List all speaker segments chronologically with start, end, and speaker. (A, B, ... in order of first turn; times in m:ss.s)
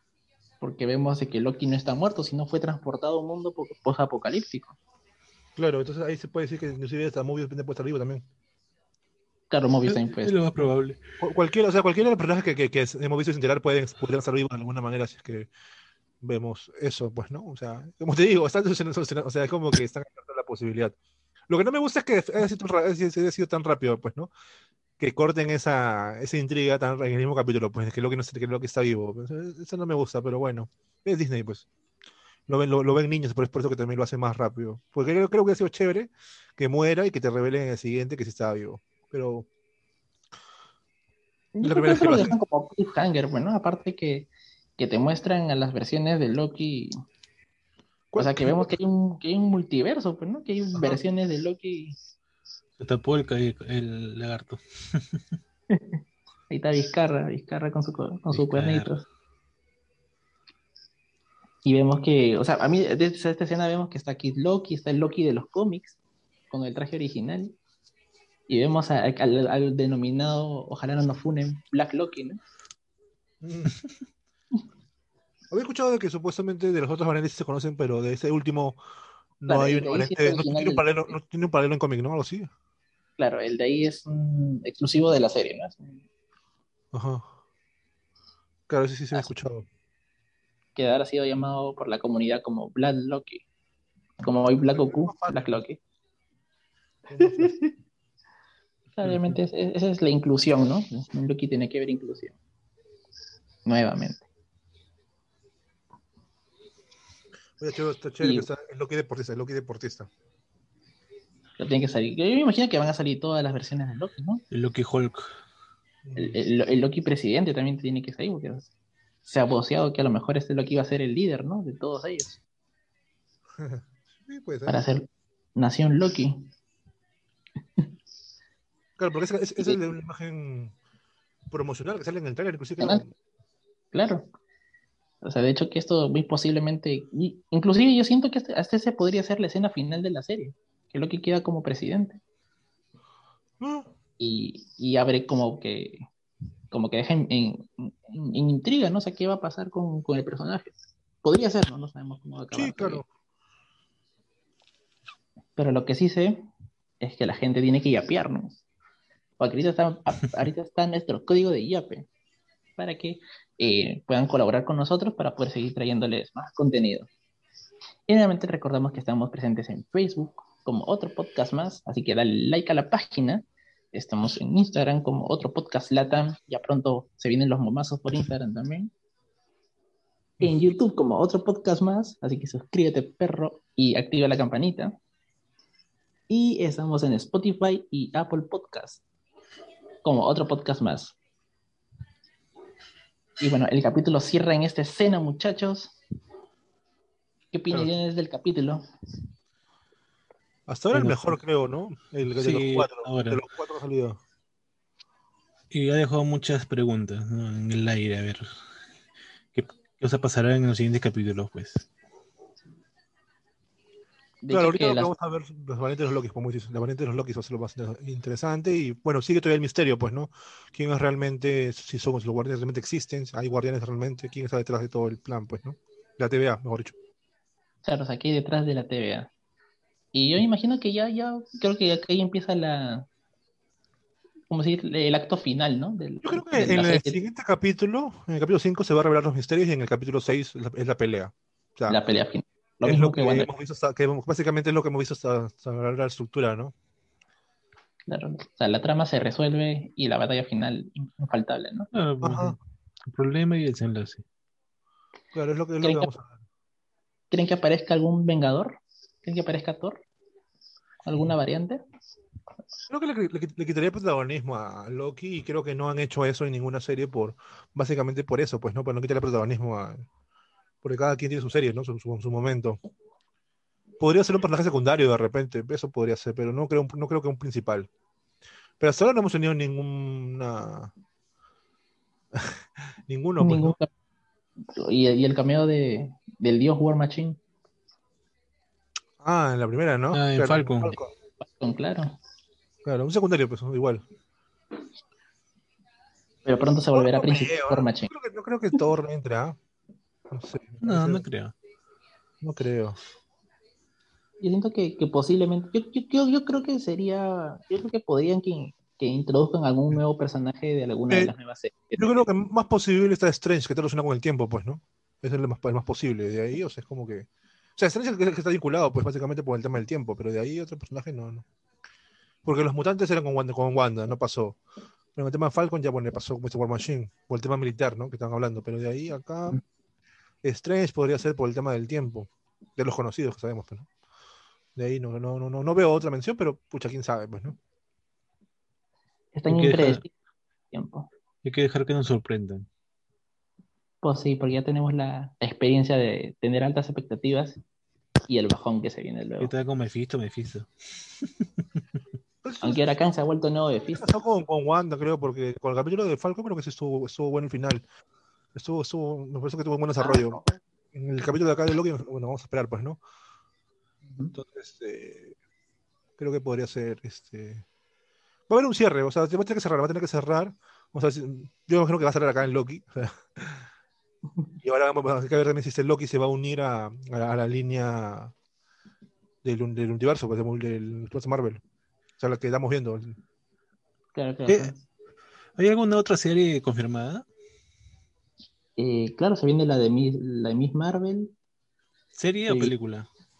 0:00.6-0:04.8 A
0:05.6-0:08.3 B
0:09.5-0:10.4 A
0:09.9-0:11.0 C
0:11.2-0:15.5 B
0:16.2-0:21.0 B
0:21.5-0:24.3 B
0:25.0-0:31.7 B
0:32.5-0:39.5 B
0:41.6-0:46.9 A
0:41.6-0:42.4 B
0:48.1-0:48.7 B
0:48.2-0:52.0 A
0:50.8-0:51.0 B
0:52.8-0:55.2 C
0:55.7-0:56.0 A
0:56.5-0:59.1 A
0:58.3-0:58.9 C
1:01.6-1:06.0 A
1:06.5-1:07.6 A
1:08.5-1:12.4 A
1:13.4-1:13.7 B
1:15.5-1:18.8 B
1:19.4-1:22.5 B
1:19.5-1:21.2 A
1:23.2-1:26.0 A
1:26.9-1:27.3 B
1:28.7-1:29.7 B
1:30.8-1:33.4 A
1:34.2-1:35.8 A
1:34.6-1:35.6 B
1:37.1-1:37.5 B
1:37.2-1:37.7 A
1:39.0-1:42.4 A
1:43.6-1:44.3 A
1:47.6-1:50.1 B
1:48.2-1:48.5 A
1:51.6-1:54.4 A
1:54.5-1:55.2 C
1:56.0-1:56.4 B
1:56.2-1:58.7 A
1:59.2-2:02.4 A
2:03.6-2:04.8 B
2:04.7-2:06.5 A
2:09.0-2:10.7 B
2:11.5-2:13.1 B
2:12.8-2:13.0 A
2:13.9-2:14.3 A
2:15.2-2:22.2 A
2:23.6-2:23.9 B
2:24.2-2:26.1 A
2:26.7-2:33.0 A
2:32.5-2:33.1 B
2:35.6-2:36.4 A
2:37.0-2:38.6 A
2:39.4-2:42.1 A
2:42.8-2:47.1 A
2:48.1-2:58.9 A
3:00.4-3:00.6 B
3:00.4-3:05.0 A
3:06.3-3:09.0 A
3:10.0-3:11.2 A
3:13.4-3:16.0 A
3:17.5-3:18.8 A
3:20.7-3:24.2 B
3:20.9-3:21.4 C
3:22.4-3:23.4 C
3:25.7-3:28.6 C
3:29.6-3:31.9 C
3:34.4-3:35.1 A
3:34.5-3:47.0 B
3:47.8-3:49.3 A
3:50.1-3:53.1 A
3:54.5-3:57.2 A
3:56.2-4:02.0 B
4:01.9-4:03.5 A
4:02.8-4:06.7 B
4:08.1-4:11.9 A
4:11.9-4:14.2 C
4:12.2-4:12.6 B
4:15.3-4:16.4 B
4:15.8-4:16.1 A
4:17.3-4:20.0 A
4:21.0-4:21.8 A
4:22.9-4:30.1 B
4:30.8-4:32.8 B
4:34.0-4:37.9 B
4:38.8-4:40.9 B
4:42.3-4:43.8 B
4:43.4-4:43.9 A
4:44.8-4:47.4 A
4:49.2-4:51.1 B
4:50.1-4:51.0 C
4:51.4-4:52.2 A
4:52.8-4:54.0 B
4:56.5-4:58.1 A
4:56.9-4:59.6 B
5:00.3-5:01.2 B
5:00.8-5:01.5 C
5:02.4-5:03.0 B
5:04.4-5:12.2 A
5:12.0-5:21.4 B
5:22.4-5:24.6 B
5:25.2-5:29.6 B
5:30.4-5:33.9 B
5:34.8-5:37.6 B
5:39.3-5:40.1 A
5:39.5-5:40.0 C
5:40.7-5:41.1 A
5:41.4-5:42.7 C
5:44.0-5:47.6 A
5:48.3-5:49.5 A
5:49.4-5:50.7 C
5:51.2-5:51.4 C
5:52.4-5:52.8 B
5:52.6-5:54.0 A
5:54.0-5:57.8 B
5:58.6-6:00.4 B
6:00.0-6:00.6 A
6:00.9-6:03.0 B
6:04.1-6:04.4 A
6:04.3-6:05.4 B
6:06.2-6:07.6 B
6:08.5-6:13.7 B
6:14.6-6:18.3 B
6:19.4-6:21.6 B
6:22.2-6:23.2 B
6:24.2-6:24.8 A
6:24.5-6:24.7 C
6:25.6-6:27.3 C
6:28.8-6:31.3 A
6:32.2-6:33.1 C
6:32.5-6:32.7 A